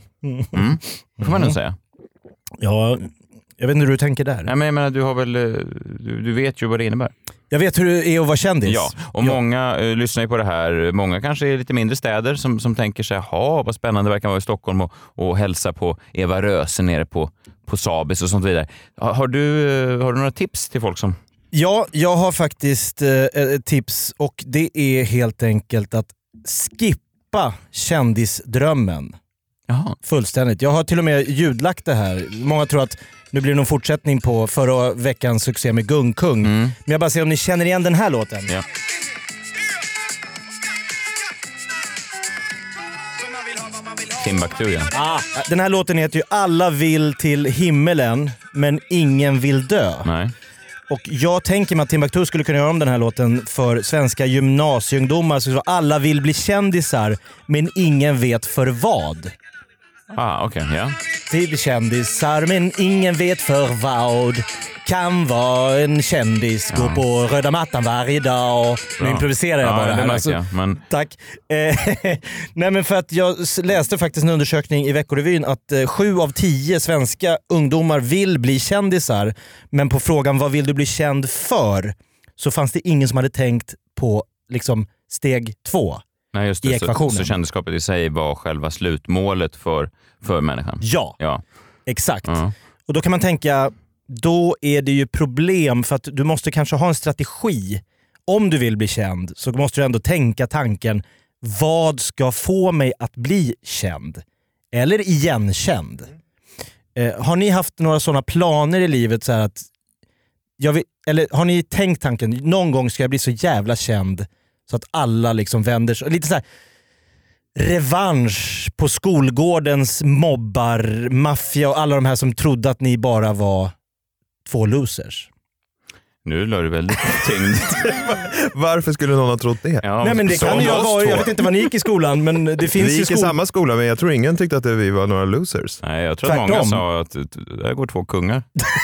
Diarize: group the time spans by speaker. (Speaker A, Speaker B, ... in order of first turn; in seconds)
Speaker A: 0.2-1.6, 2.6-4.5, 7.5-9.4, 21.5-29.2, 30.1-38.5, 44.9-50.1, 50.9-59.3, 61.3-86.0, 86.6-87.3, 90.8-91.2, 91.9-106.1, 107.0-109.7, 110.6-116.4, 117.6-123.7, 124.5-125.3, 130.0-133.4, 136.3-136.8
Speaker B: 0.5-1.8, 4.5-7.1, 8.7-21.2, 29.7-30.0, 36.4-36.8, 44.1-44.9, 50.0-50.3, 60.1-61.0, 66.7-67.0, 69.0-70.8, 86.3-91.4, 92.2-92.5, 126.2-127.9, 129.8-131.3, 135.8-138.4
Speaker C: 127.8-131.1, 132.8-135.8